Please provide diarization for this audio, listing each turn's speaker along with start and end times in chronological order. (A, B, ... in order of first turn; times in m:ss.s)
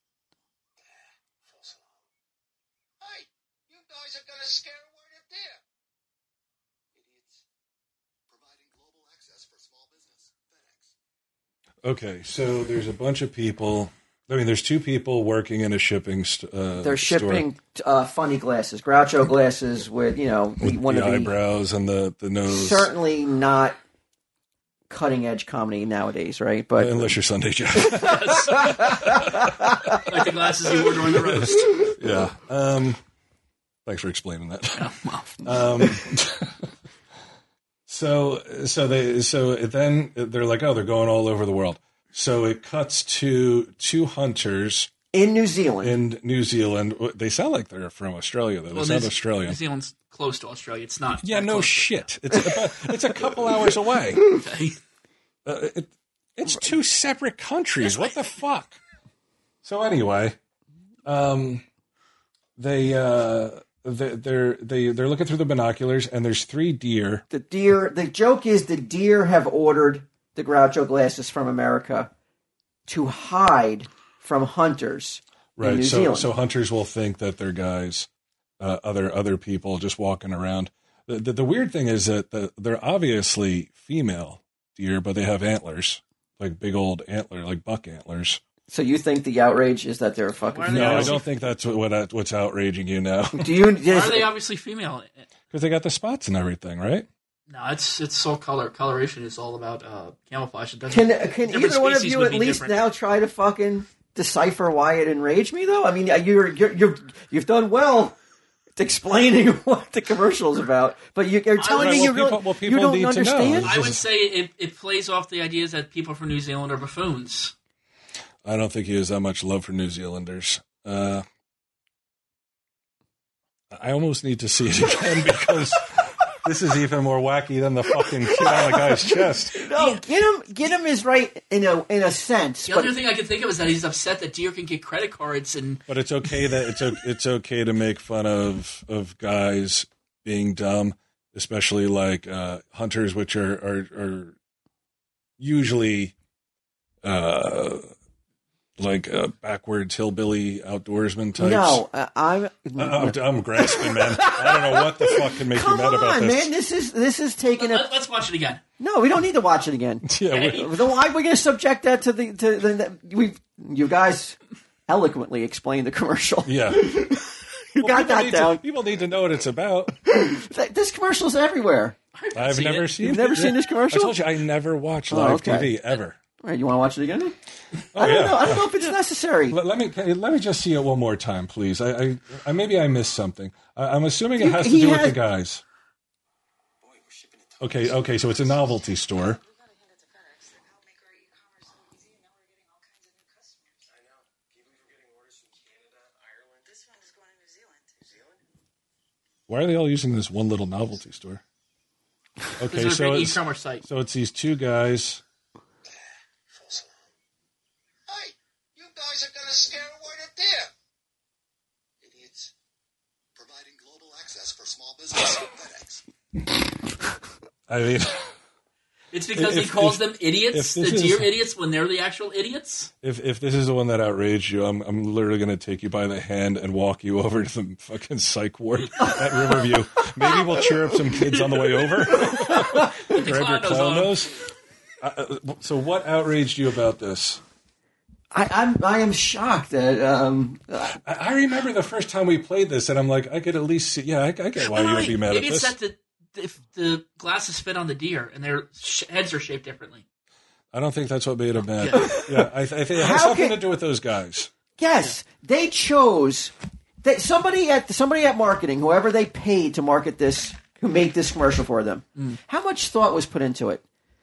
0:00.9-0:02.0 A
0:03.0-0:05.6 A
0:06.9-0:07.4 A
0:08.3-0:10.9 A
0:11.8-0:17.5 B
0:16.8-0:21.3 C
0:20.6-0:22.9 B
0:22.5-0:23.8 C
0:24.9-0:27.2 C
0:26.8-0:29.5 B
0:27.9-0:28.8 D
0:28.5-0:30.0 C
0:30.0-0:31.9 D
0:31.1-0:33.0 B
0:33.9-0:36.6 B
0:34.8-0:35.9 D
0:37.9-0:44.9 B
0:45.1-0:46.0 C
0:45.8-0:49.6 B
0:48.7-0:52.1 D
0:51.2-0:54.2 B
0:54.3-0:54.8 D
0:55.4-0:58.8 B
0:57.8-0:58.2 D
0:59.6-1:00.4 B
1:01.1-1:01.6 B
1:02.6-1:07.2 B
1:07.3-1:12.1 C
1:12.9-1:16.3 C
1:15.6-1:18.1 B
1:18.6-1:28.4 B
1:28.7-1:31.2 C
1:30.4-1:31.3 D
1:30.7-1:33.5 B
1:33.4-1:34.3 C
1:33.9-1:35.3 D
1:35.5-1:37.1 B
1:37.5-1:42.8 D
1:40.9-1:48.2 C
1:48.8-1:53.7 C
1:51.6-1:52.2 D
1:51.7-1:54.0 B
1:53.4-1:57.5 D
1:58.4-2:01.2 B
2:03.7-2:09.6 B
2:08.4-2:12.9 C
2:09.8-2:10.0 D
2:12.7-2:15.8 D
2:15.9-2:24.4 B
2:25.4-2:26.1 B
2:27.0-2:27.9 B
2:28.8-2:31.8 B
2:31.4-2:37.9 C
2:32.8-2:36.5 B
2:37.6-2:38.6 D
2:38.8-2:48.6 C
2:40.0-2:40.7 B
2:40.3-2:40.7 D
2:46.4-2:47.1 B
2:47.8-2:50.0 B
2:50.0-2:52.0 C
2:52.2-2:52.9 D
2:52.3-2:56.2 B
2:53.0-2:54.2 C
2:55.1-2:55.7 C
2:56.4-2:57.4 C
2:57.9-2:58.8 B
2:58.0-2:59.6 C
2:59.5-3:05.6 B
3:04.4-3:05.2 C
3:06.8-3:08.6 A
3:07.6-3:09.4 B
3:09.1-3:13.8 E
3:13.9-3:16.8 A
3:16.7-3:17.9 E
3:18.0-3:18.4 A
3:19.5-3:21.4 B
3:22.6-3:25.2 B
3:22.7-3:23.8 D
3:26.5-3:27.0 A
3:28.1-3:30.7 A
3:32.0-3:32.5 A
3:33.4-3:36.0 A
3:37.7-3:38.3 B
3:39.1-3:42.9 D
3:39.3-3:41.3 B
3:43.0-3:54.4 B
3:52.4-3:54.3 D
3:55.0-3:57.4 B
3:58.3-4:01.0 C
4:00.9-4:05.7 B
4:04.6-4:10.0 D
4:10.7-4:14.5 B
4:11.8-4:12.2 D
4:12.0-4:13.6 C
4:14.8-4:23.8 C